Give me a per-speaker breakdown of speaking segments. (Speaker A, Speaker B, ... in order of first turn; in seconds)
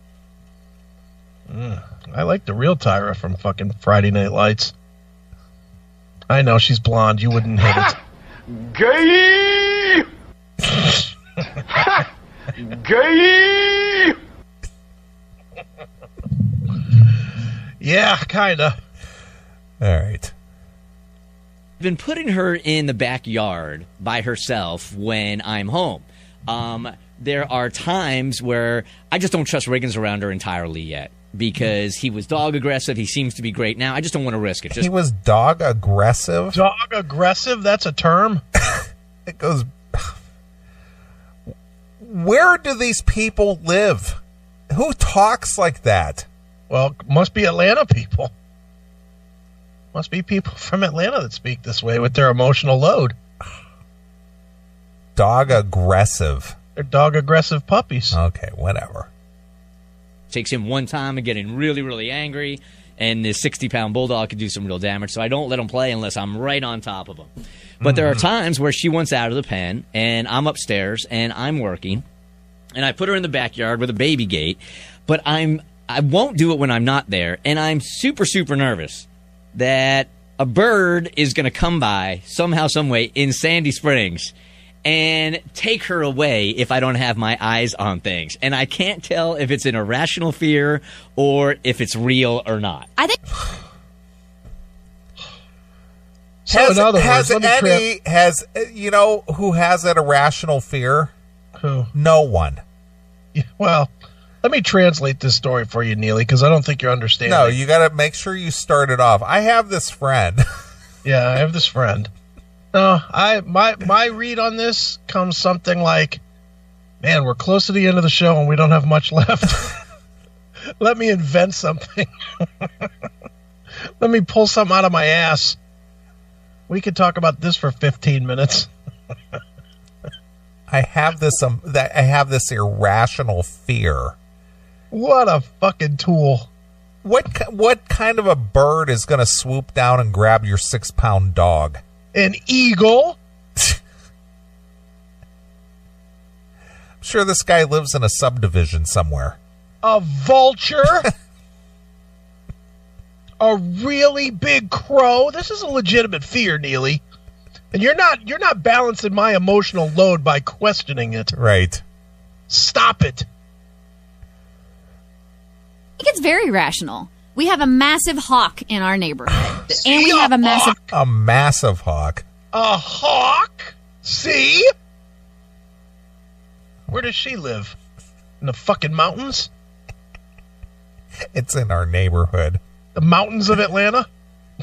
Speaker A: 1.5-4.7, 6.3-7.9, 17.8-18.8, 36.5-38.4, 46.7-48.3, 49.9-53.1, 56.8-58.2, 67.8-68.2, 96.4-97.8, 101.6-101.9, 103.3-107.6, 111.0-112.1, 112.7-116.2, 117.0-119.7, 120.8-122.7, 124.0-125.6, 126.7-128.7, 134.9-136.5, 142.1-143.2, 149.8-151.1, 153.4-157.0, 157.7-161.3, 162.5-163.3, 169.7-170.9, 172.5-174.7, 176.9-177.8, 178.4-179.5, 182.9-184.1
Speaker B: 7.7-7.9, 8.6-10.1, 11.7-12.1, 12.7-14.2
Speaker C: 19.8-20.3, 34.7-36.6, 38.7-40.1, 42.0-46.3, 55.1-56.5, 58.1-59.1, 96.5-101.1, 101.9-102.6, 107.2-110.4, 130.7-134.2, 137.0-141.8, 147.0-149.4, 161.3-161.8, 170.9-172.2, 181.3-182.6
Speaker D: 21.8-34.9, 60.3-67.3, 67.8-72.0, 72.8-84.3, 84.8-92.9
Speaker E: 166.0-170.8